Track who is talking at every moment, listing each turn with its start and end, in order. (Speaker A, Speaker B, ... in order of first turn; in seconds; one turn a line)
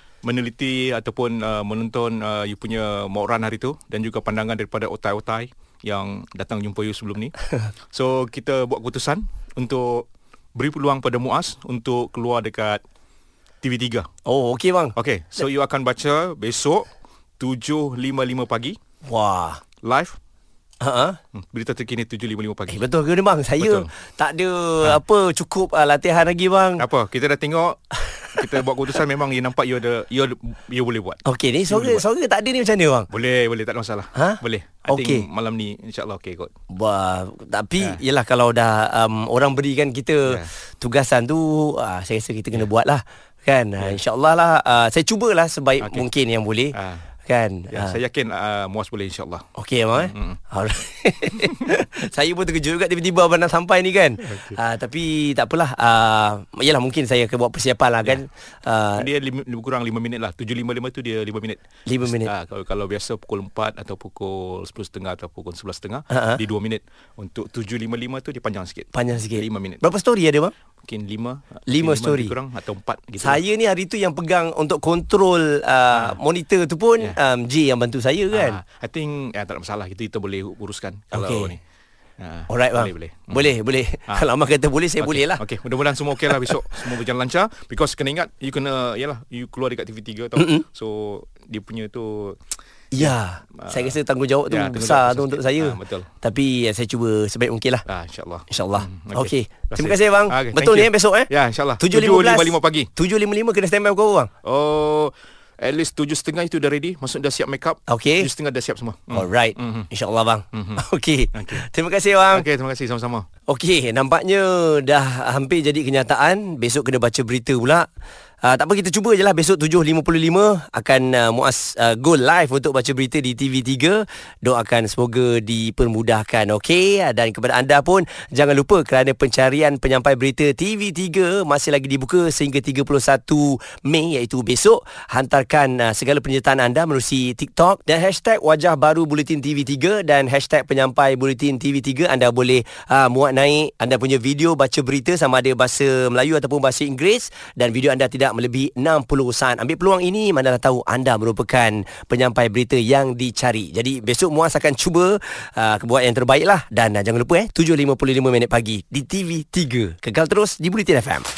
Speaker A: 0.2-7.3
Speaker A: 7.9-12.8
Speaker A: 13.6-14.1
Speaker B: 14.3-14.9
Speaker A: 15.0-16.9
Speaker A: 17.4-18.8
Speaker B: 19.1-19.6
Speaker A: 19.8-20.2
Speaker B: 20.8-21.2
Speaker A: 21.4-22.9
Speaker B: 22.7-26.9
Speaker A: 23.6-23.9
Speaker A: 26.8-32.0
Speaker B: 31.2-33.1
Speaker A: 33.1-36.5
Speaker B: 34.1-35.3
Speaker B: 36.7-46.8
Speaker A: 45.8-46.1
Speaker A: 46.7-47.0
Speaker B: 47.3-48.0
Speaker A: 47.7-49.5
Speaker B: 49.5-59.1
Speaker A: 50.0-50.4
Speaker A: 54.3-54.6
Speaker A: 59.0-69.8
Speaker B: 61.9-62.3
Speaker B: 66.1-66.4
Speaker B: 68.9-70.5
Speaker A: 70.9-73.4
Speaker B: 71.7-72.4
Speaker B: 73.2-78.6
Speaker A: 75.9-76.2
Speaker A: 78.3-81.6
Speaker B: 81.1-81.6
Speaker A: 82.2-83.5
Speaker B: 82.5-85.4
Speaker A: 85.0-92.4
Speaker B: 86.3-86.5
Speaker B: 90.4-90.7
Speaker B: 92.9-97.8
Speaker A: 93.0-93.9
Speaker A: 94.5-96.1
Speaker A: 97.9-102.9
Speaker B: 98.5-104.3
Speaker A: 104.4-109.9
Speaker B: 107.9-108.3
Speaker B: 109.1-112.5
Speaker A: 110.5-110.8
Speaker A: 111.3-111.6
Speaker A: 112.3-113.3
Speaker B: 113.5-117.9
Speaker B: 118.4-161.3